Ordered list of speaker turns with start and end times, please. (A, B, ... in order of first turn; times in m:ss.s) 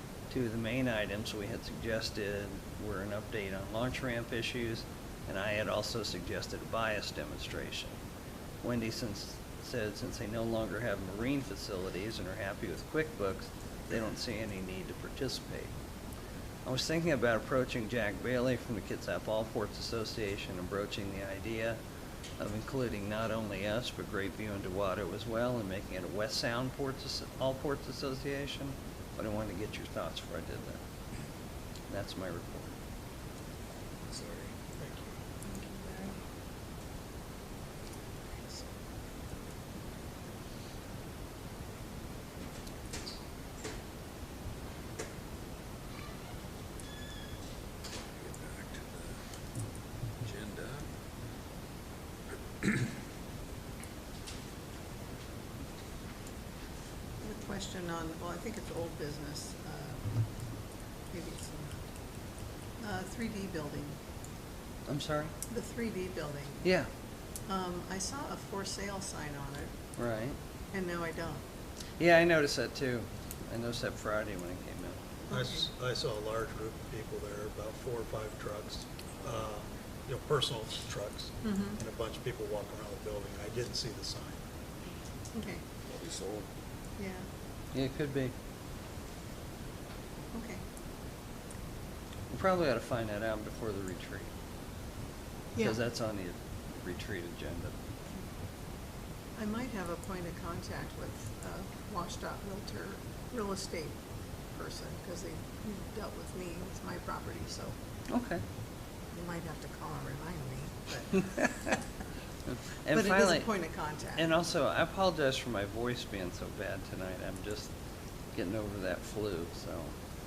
0:00.3-0:08.0 A
0:08.6-0:15.7 A
0:16.6-0:21.8 A
0:22.4-0:30.8 A
0:31.9-0:32.7 A
0:34.0-0:34.5 B
0:34.8-0:35.1 C
0:35.4-0:36.2 D
0:48.1-0:49.2 B
0:50.2-0:50.9 B
0:52.6-0:52.9 B
0:57.2-1:00.2 D
1:01.1-1:01.8 D
1:02.8-1:04.0 D
1:04.9-1:05.3 A
1:05.5-1:06.6 D
1:06.6-1:06.9 A
1:07.5-1:09.7 D
1:10.0-1:10.4 A
1:10.7-1:11.4 D
1:12.0-1:15.0 A
1:15.3-1:15.7 D
1:15.3-1:18.7 C
1:19.2-1:24.3 C
1:21.4-1:21.8 D
1:25.3-1:25.6 D
1:25.9-1:26.5 B
1:27.0-1:27.3 D
1:27.7-1:28.3 A
1:30.3-1:30.6 D
1:32.3-1:34.3 A
1:35.6-1:37.8 A
1:39.4-1:44.0 D
1:44.6-1:47.8 D
1:48.1-1:48.4 A
1:49.1-1:51.8 D
1:52.5-1:53.5 A
1:52.9-1:54.3 D
1:54.2-1:57.7 A
1:58.3-1:59.9 A